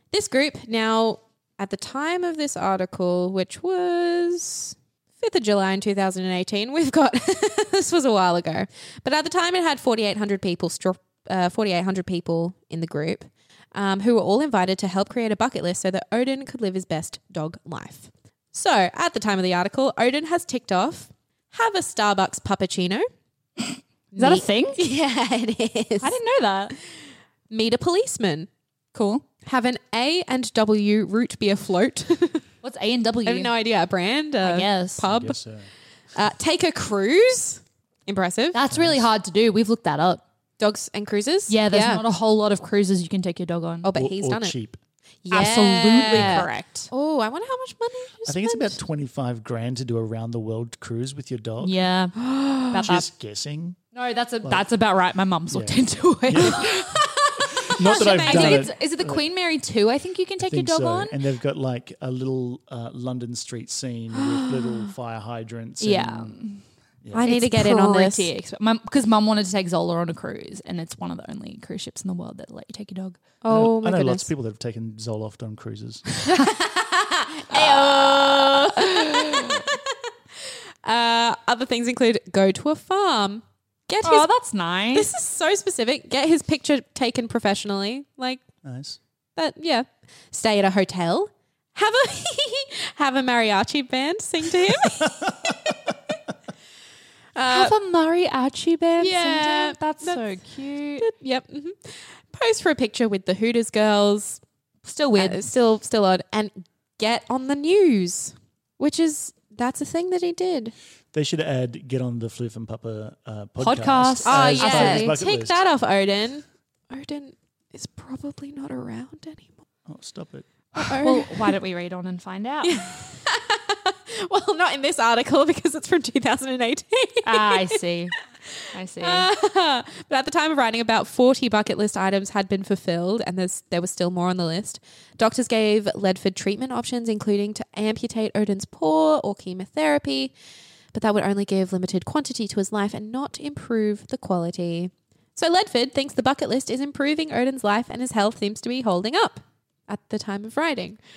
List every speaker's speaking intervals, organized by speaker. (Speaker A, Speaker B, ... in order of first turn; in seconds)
Speaker A: 0.1-23.1, 24.1-26.1, 27.5-28.5, 29.4-32.4, 33.2-35.4, 36.1-38.6, 40.6-42.0, 43.8-44.5, 45.2-48.8, 52.2-52.8, 56.4-58.7, 64.2-64.9, 67.1-68.3, 73.4-74.3, 76.3-79.8, 80.8-84.3, 84.9-88.4, 89.3-95.8, 97.3-97.7, 99.0-100.2, 101.0-104.4, 105.2-110.7, 114.2-119.5, 120.8-121.5, 122.6-127.8, 129.0-140.3, 140.9-151.0
Speaker B: 24.1-24.8, 26.0-26.8, 28.9-29.2, 32.6-33.5, 34.4-35.0, 38.5-40.2, 41.5-43.9, 45.3-46.9, 51.6-52.2, 52.7-53.0, 53.9-56.7, 57.8-61.1, 65.8-66.6, 67.2-73.2, 76.2-76.5, 77.5-79.6, 84.0-85.1, 97.5-101.1, 104.8-105.4, 113.6-115.2, 120.8-122.9, 127.2-128.1, 128.7-129.3
Speaker C: 35.0-35.7, 38.7-39.0, 44.0-44.8, 46.1-46.4, 48.3-51.8, 52.8-53.8, 55.5-56.6, 57.7-59.2, 60.4-66.3, 73.5-76.0, 88.6-89.0, 95.0-95.3, 111.1-115.6, 119.8-120.5